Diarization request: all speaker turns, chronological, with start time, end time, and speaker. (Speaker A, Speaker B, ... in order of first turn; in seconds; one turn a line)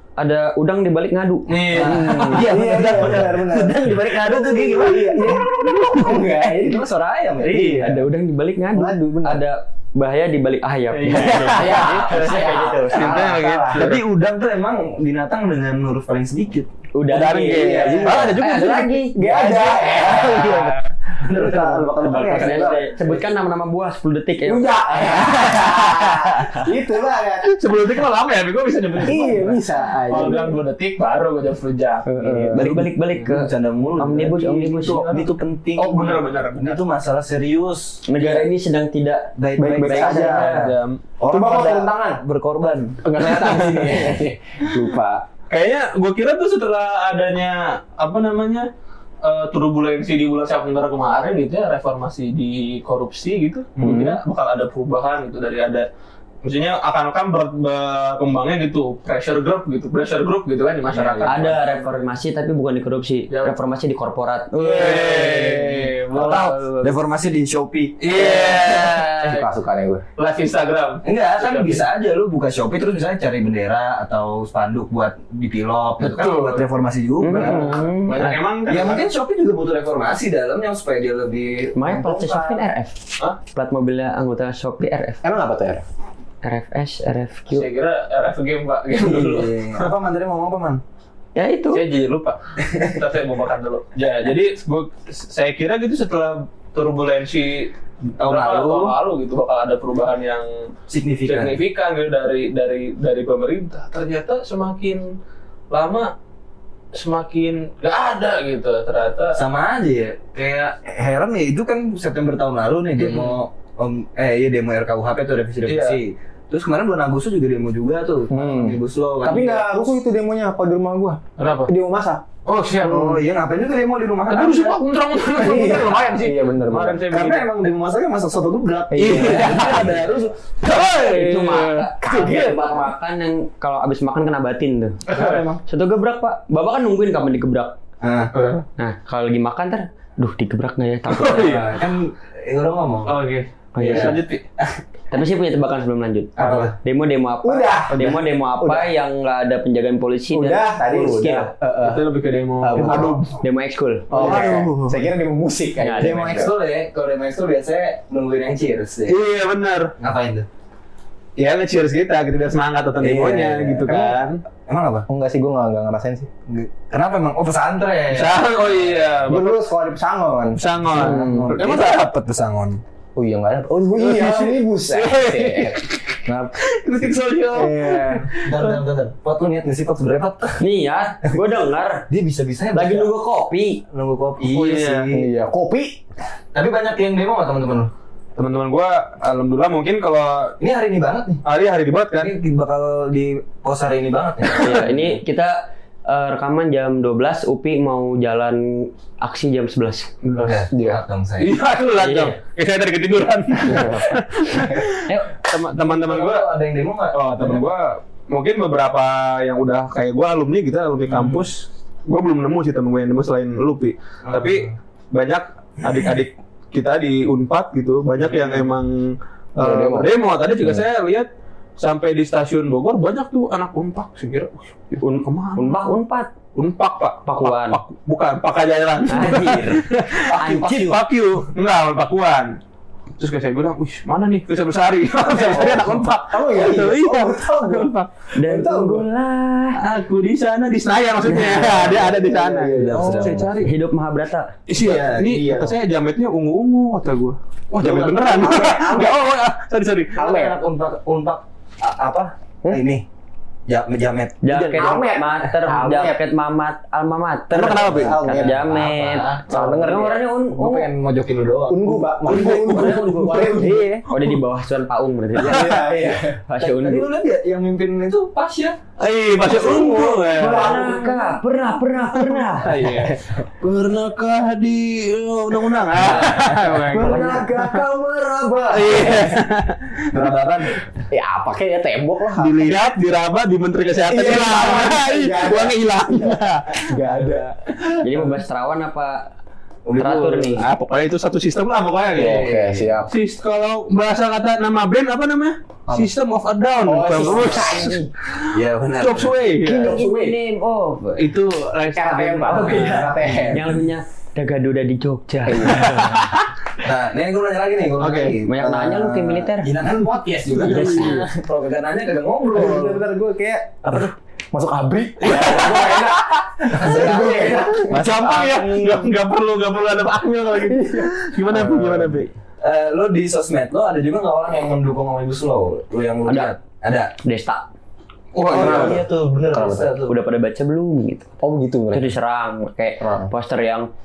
Speaker A: 0.2-2.4
Speaker B: 1.5-2.5
Speaker C: 1.7-8.0
Speaker D: 2.0-6.8
Speaker B: 5.3-5.9
Speaker B: 7.4-7.8
Speaker A: 7.7-13.1
Speaker D: 8.7-9.4
Speaker B: 10.9-14.0
Speaker D: 11.2-13.9
Speaker C: 12.1-12.5
Speaker C: 13.7-16.7
Speaker A: 16.9-19.5
Speaker B: 17.1-20.8
Speaker D: 17.5-18.4
Speaker D: 19.1-23.2
Speaker C: 20.0-20.5
Speaker C: 21.2-22.6
Speaker A: 22.0-26.4
Speaker D: 24.4-27.6
Speaker B: 27.6-32.4
Speaker D: 29.0-30.6
Speaker D: 32.1-32.6
Speaker A: 32.5-35.2
Speaker C: 32.5-38.5
Speaker B: 34.8-35.2
Speaker B: 35.7-36.8
Speaker A: 38.1-40.7
Speaker C: 39.4-40.6
Speaker D: 39.6-40.6
Speaker B: 40.4-41.0
Speaker C: 41.2-43.0
Speaker D: 41.3-42.2
Speaker D: 43.0-45.2
Speaker B: 43.2-44.1
Speaker B: 45.5-48.7
Speaker B: 49.2-55.9
Speaker D: 53.8-54.2
Speaker B: 56.4-62.0
Speaker C: 60.9-61.5
Speaker A: 61.2-64.8
Speaker B: 63.3-63.5
Speaker C: 64.5-69.1
Speaker B: 64.6-66.9
Speaker B: 68.0-69.5
Speaker D: 69.2-70.0
Speaker B: 70.2-71.8
Speaker C: 71.0-77.9
Speaker B: 76.0-76.7
Speaker A: 77.2-78.4
Speaker B: 77.3-79.1
Speaker C: 78.7-82.7
Speaker A: 81.7-83.0
Speaker A: 83.5-85.2
Speaker D: 85.2-85.8
Speaker A: 86.4-87.7
Speaker B: 87.5-89.9
Speaker C: 89.0-90.8
Speaker A: 91.3-91.8
Speaker B: 91.7-100.5
Speaker C: 92.7-92.9
Speaker C: 98.2-99.0
Speaker C: 100.9-101.6
Speaker B: 101.2-105.0
Speaker B: 105.7-106.1
Speaker B: 106.9-109.4
Speaker C: 109.3-119.7
Speaker B: 113.0-113.3
Speaker B: 115.6-116.0
Speaker D: 118.3-122.2
Speaker B: 121.4-121.7
Speaker B: 122.5-123.2
Speaker C: 122.8-124.8
Speaker B: 124.3-127.6
Speaker D: 125.3-127.0
Speaker C: 127.1-130.3
Speaker D: 128.9-129.8
Speaker B: 128.9-132.7
Speaker A: 130.7-135.0
Speaker B: 135.1-135.4
Speaker C: 135.1-135.6
Speaker A: 135.7-137.8
Speaker C: 138.0-138.3
Speaker B: 138.3-138.6
Speaker A: 138.8-141.7
Speaker B: 141.1-141.8
Speaker C: 141.2-143.1
Speaker B: 143.1-144.4
Speaker A: 143.7-144.2
Speaker C: 143.8-144.8
Speaker A: 145.1-151.5
Speaker C: 146.3-146.7
Speaker D: 147.4-148.9
Speaker D: 150.3-152.0
Speaker B: 151.8-153.3
Speaker D: 152.6-153.2
Speaker A: 153.4-154.5
Speaker D: 154.1-156.5
Speaker C: 154.1-154.9
Speaker B: 154.1-154.8
Speaker A: 155.8-156.5
Speaker C: 156.0-159.2
Speaker B: 159.1-159.9
Speaker C: 160.0-160.5
Speaker B: 161.4-164.4
Speaker C: 163.0-164.1
Speaker D: 163.9-164.2
Speaker C: 164.7-165.1
Speaker D: 165.1-166.3
Speaker C: 166.5-169.2
Speaker B: 168.1-169.6
Speaker D: 169.3-171.6
Speaker B: 170.6-172.1
Speaker C: 170.9-172.8
Speaker D: 173.2-176.5
Speaker B: 173.9-176.0
Speaker B: 176.6-178.8
Speaker D: 177.5-178.2
Speaker C: 178.1-180.6
Speaker A: 180.6-182.1
Speaker C: 182.1-183.1
Speaker A: 182.7-183.8
Speaker C: 183.9-185.3
Speaker B: 184.4-185.1
Speaker D: 185.1-186.0
Speaker C: 186.5-187.9
Speaker B: 188.4-190.5
Speaker C: 190.6-191.4
Speaker B: 191.4-192.3
Speaker C: 192.1-195.2
Speaker A: 194.5-200.1
Speaker B: 200.2-200.7
Speaker C: 200.4-201.5
Speaker D: 200.7-201.0
Speaker B: 201.4-206.5
Speaker A: 202.0-202.4
Speaker D: 203.7-204.0
Speaker C: 203.7-204.0
Speaker C: 204.5-204.9
Speaker C: 205.8-207.7
Speaker B: 207.1-225.9
Speaker C: 211.1-211.4
Speaker C: 214.2-214.7
Speaker D: 219.6-220.1
Speaker A: 225.0-226.3
Speaker B: 226.5-232.6
Speaker A: 227.2-227.8
Speaker A: 229.1-231.0
Speaker B: 233.2-238.1
Speaker D: 235.3-239.1
Speaker C: 235.4-235.7
Speaker A: 238.3-239.8
Speaker B: 239.8-243.7
Speaker A: 241.3-241.6
Speaker D: 241.3-243.5
Speaker C: 241.3-243.5
Speaker A: 243.5-244.5
Speaker B: 244.7-250.2
Speaker C: 244.8-245.8
Speaker C: 247.8-249.2
Speaker D: 250.2-250.6
Speaker C: 250.2-253.0
Speaker C: 253.7-254.9
Speaker A: 254.4-260.9
Speaker D: 254.5-256.2
Speaker B: 257.5-258.2
Speaker D: 257.5-258.9
Speaker C: 258.5-263.9
Speaker D: 259.4-260.2
Speaker D: 261.7-264.0
Speaker B: 262.3-263.6
Speaker A: 263.4-265.8
Speaker D: 265.3-266.3
Speaker C: 265.4-268.8
Speaker A: 266.5-267.1
Speaker B: 269.0-270.8
Speaker C: 269.4-270.8
Speaker D: 269.5-271.4
Speaker A: 270.4-272.7
Speaker B: 272.6-277.8
Speaker D: 272.9-273.2
Speaker C: 275.6-277.0
Speaker D: 276.1-279.4
Speaker B: 278.7-280.1
Speaker C: 280.1-280.8
Speaker D: 281.1-282.8
Speaker B: 282.3-287.4
Speaker D: 284.1-287.5
Speaker A: 288.0-289.3
Speaker C: 289.8-290.6
Speaker A: 290.0-290.6
Speaker B: 290.6-300.0
Speaker D: 292.1-293.1
Speaker C: 292.2-292.9
Speaker D: 296.8-298.1
Speaker A: 297.7-298.0
Speaker C: 298.5-299.4
Speaker D: 299.6-300.4
Speaker A: 299.7-301.2
Speaker B: 301.2-303.1
Speaker D: 301.9-303.7
Speaker A: 302.5-306.2
Speaker C: 302.5-303.5
Speaker D: 305.4-306.2
Speaker B: 305.6-306.5
Speaker C: 306.8-313.1
Speaker B: 308.0-308.4
Speaker A: 308.4-309.7
Speaker B: 310.5-311.3
Speaker A: 310.6-311.3
Speaker D: 312.5-318.0
Speaker C: 313.8-314.1
Speaker B: 315.2-322.3
Speaker C: 315.3-315.8
Speaker C: 316.7-319.1
Speaker D: 320.7-322.2
Speaker C: 322.6-327.1
Speaker A: 326.2-326.5
Speaker A: 327.2-327.7
Speaker B: 328.3-329.0
Speaker C: 328.4-330.1
Speaker D: 328.5-329.9
Speaker A: 330.1-331.3
Speaker D: 331.4-332.1
Speaker A: 331.9-333.9
Speaker D: 333.0-333.3